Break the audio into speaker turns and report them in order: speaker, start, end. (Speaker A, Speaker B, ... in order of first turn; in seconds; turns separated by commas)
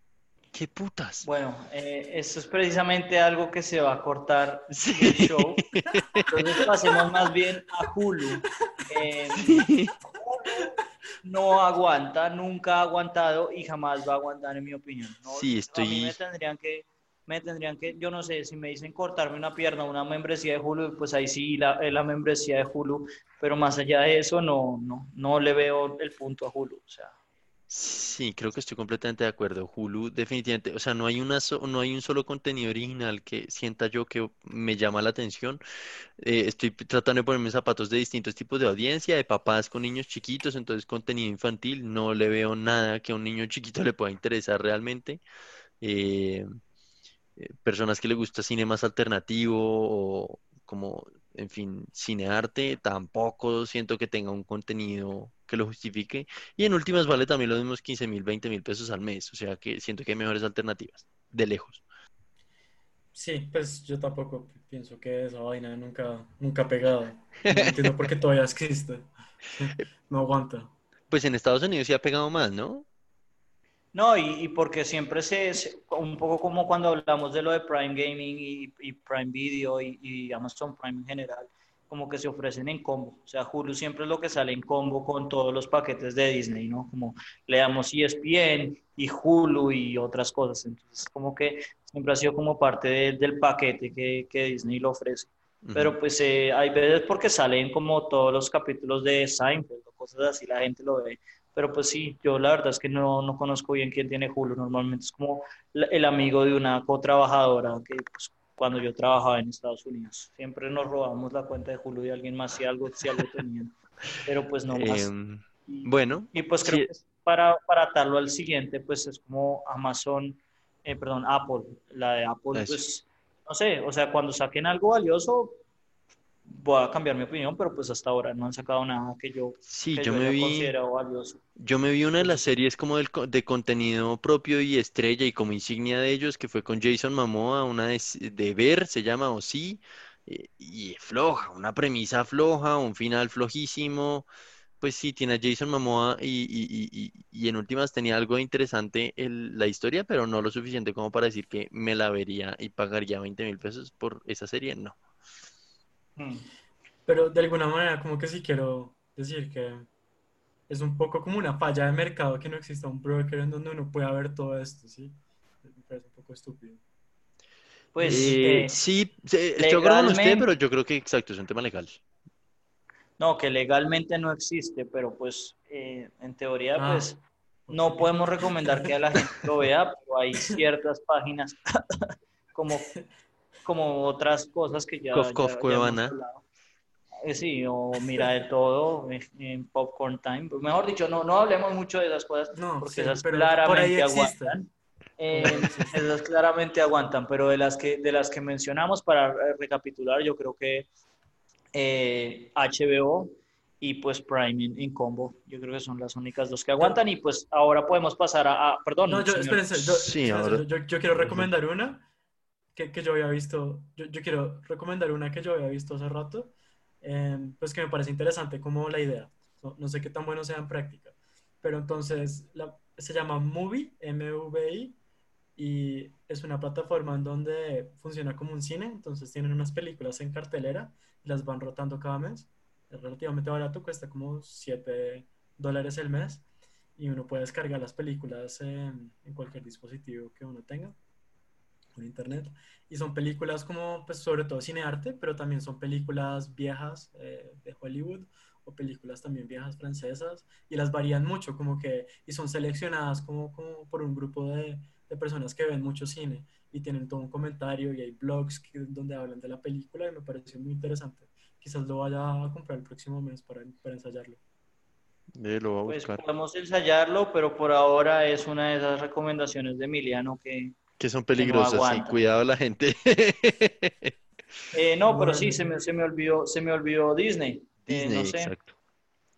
Speaker A: 0.5-1.3, Speaker B: 1.2-5.6, Speaker A: 4.7-6.3, Speaker B: 6.3-9.6, Speaker A: 9.4-9.9, Speaker B: 10.2-27.1, Speaker A: 15.3-16.2, Speaker A: 27.7-35.6, Speaker A: 36.2-45.2, Speaker A: 45.8-46.4, Speaker A: 47.4-61.8, Speaker C: 63.1-70.7, Speaker A: 67.4-67.9, Speaker A: 71.1-72.8, Speaker B: 73.9-115.1, Speaker A: 95.6-96.0, Speaker A: 114.7-116.9, Speaker B: 115.7-125.6, Speaker A: 122.5-122.8, Speaker B: 126.5-131.4, Speaker A: 129.7-130.7, Speaker A: 131.6-144.3, Speaker B: 132.2-132.5, Speaker A: 144.8-155.0, Speaker B: 156.2-156.4, Speaker C: 157.1-159.9, Speaker C: 160.7-166.8, Speaker B: 167.9-168.8, Speaker C: 168.0-168.7, Speaker A: 168.1-172.0, Speaker B: 169.6-170.5, Speaker B: 173.2-182.9, Speaker C: 176.8-177.1, Speaker C: 177.7-178.2, Speaker B: 183.6-186.4, Speaker A: 185.1-186.2, Speaker B: 187.2-200.9, Speaker C: 192.6-194.6, Speaker C: 195.3-196.1, Speaker B: 201.7-209.7, Speaker C: 209.1-212.0, Speaker A: 209.8-211.5, Speaker C: 212.7-225.0, Speaker C: 225.6-236.4, Speaker C: 236.9-240.9, Speaker C: 241.9-264.4, Speaker A: 265.3-266.2, Speaker B: 265.9-270.8, Speaker A: 271.0-274.1, Speaker B: 271.4-272.2, Speaker B: 274.7-278.5, Speaker C: 275.1-275.7, Speaker A: 277.9-278.7